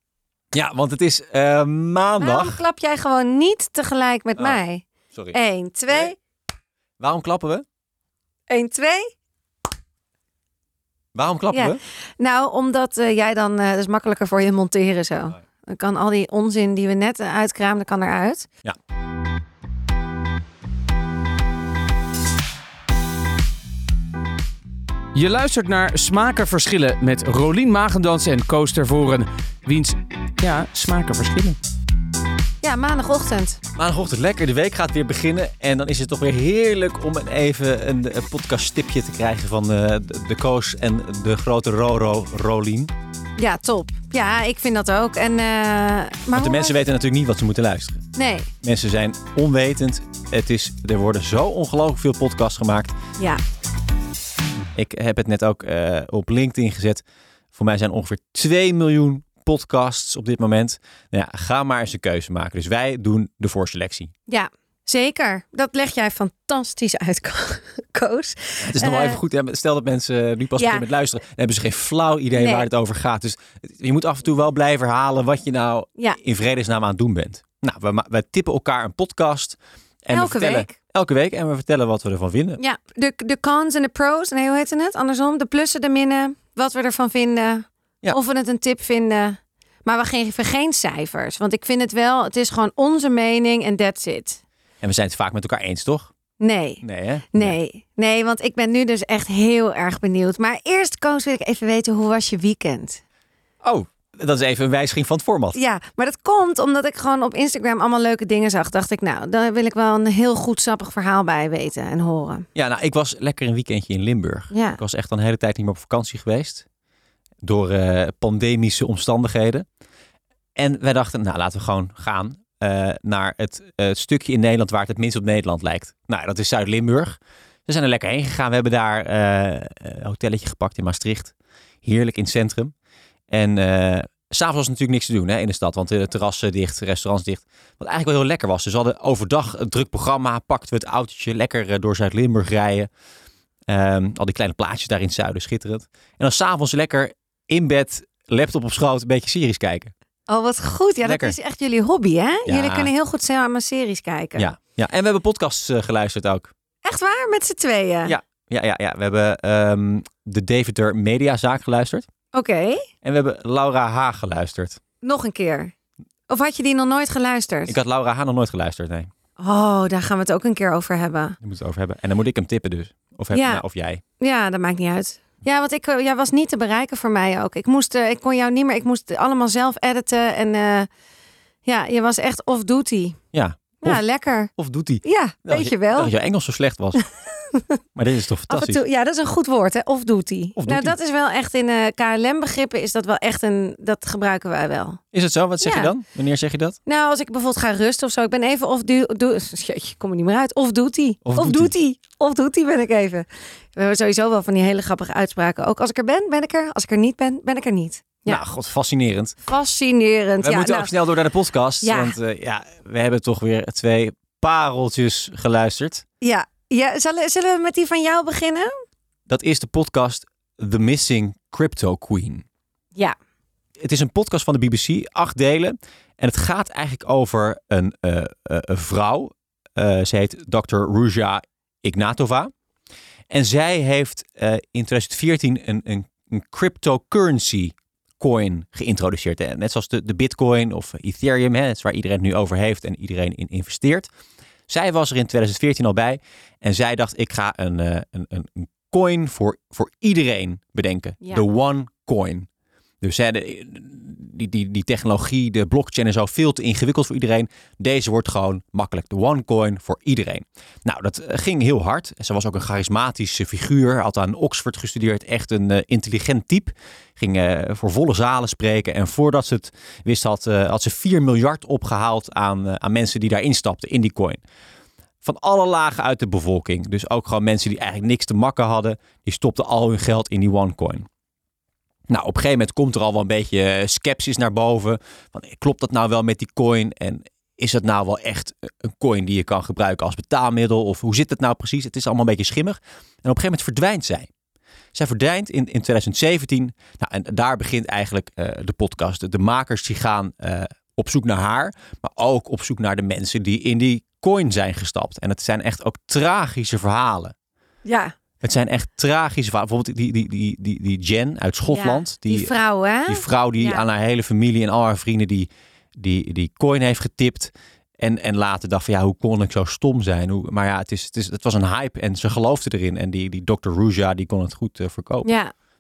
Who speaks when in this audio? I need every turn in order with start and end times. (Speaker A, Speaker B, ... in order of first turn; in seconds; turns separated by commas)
Speaker A: 0.5-2.6, Speaker B: 2.2-6.2, Speaker A: 7.0-7.7, Speaker B: 8.5-9.1, Speaker A: 11.2-11.8, Speaker B: 11.5-18.5, Speaker C: 25.1-31.6, Speaker B: 32.6-33.6, Speaker A: 33.8-42.9, Speaker B: 43.4-46.8, Speaker A: 46.3-48.0, Speaker B: 48.1-48.5, Speaker A: 48.6-53.0, Speaker A: 54.8-57.0, Speaker A: 57.5-64.1, Speaker B: 64.3-69.2, Speaker A: 68.6-82.6, Speaker B: 70.6-70.8, Speaker B: 72.4-72.7, Speaker B: 80.1-80.8, Speaker B: 82.6-94.4, Speaker A: 94.8-96.1, Speaker B: 96.4-103.0, Speaker A: 96.8-97.6, Speaker A: 103.6-105.6, Speaker B: 105.5-112.5, Speaker A: 112.5-116.7, Speaker B: 114.5-114.8, Speaker A: 117.4-119.7, Speaker A: 120.6-131.3, Speaker A: 131.8-132.7, Speaker A: 133.3-142.9, Speaker A: 143.7-149.9, Speaker B: 150.3-154.5, Speaker A: 151.0-151.4, Speaker A: 152.5-152.9, Speaker A: 154.4-156.5, Speaker B: 156.8-158.2, Speaker A: 158.1-162.1, Speaker B: 162.3-162.9, Speaker A: 163.0-164.8, Speaker B: 165.0-165.7, Speaker B: 166.3-167.8, Speaker A: 167.7-169.1, Speaker B: 169.4-171.4, Speaker A: 171.4-174.0, Speaker B: 173.3-173.6, Speaker B: 174.2-180.9, Speaker B: 181.7-183.2, Speaker A: 183.3-184.0, Speaker B: 183.8-184.5, Speaker A: 184.5-187.0, Speaker B: 185.0-186.1, Speaker B: 187.5-187.8, Speaker A: 187.9-188.8, Speaker B: 188.5-195.0, Speaker A: 190.6-190.9, Speaker A: 195.1-196.8, Speaker B: 195.6-195.9, Speaker B: 196.9-208.4, Speaker A: 201.2-201.7, Speaker A: 208.3-209.4, Speaker B: 209.5-210.9, Speaker A: 210.4-216.1, Speaker B: 211.8-212.2, Speaker B: 216.2-218.7, Speaker A: 219.3-222.4, Speaker A: 223.8-232.5, Speaker A: 233.3-244.1, Speaker A: 244.7-252.5, Speaker A: 253.0-274.4, Speaker A: 275.2-281.1, Speaker A: 282.1-294.3, Speaker A: 294.9-307.3, Speaker B: 307.9-308.1, Speaker A: 308.4-312.5, Speaker B: 311.7-313.8, Speaker A: 313.1-325.3, Speaker B: 325.2-325.5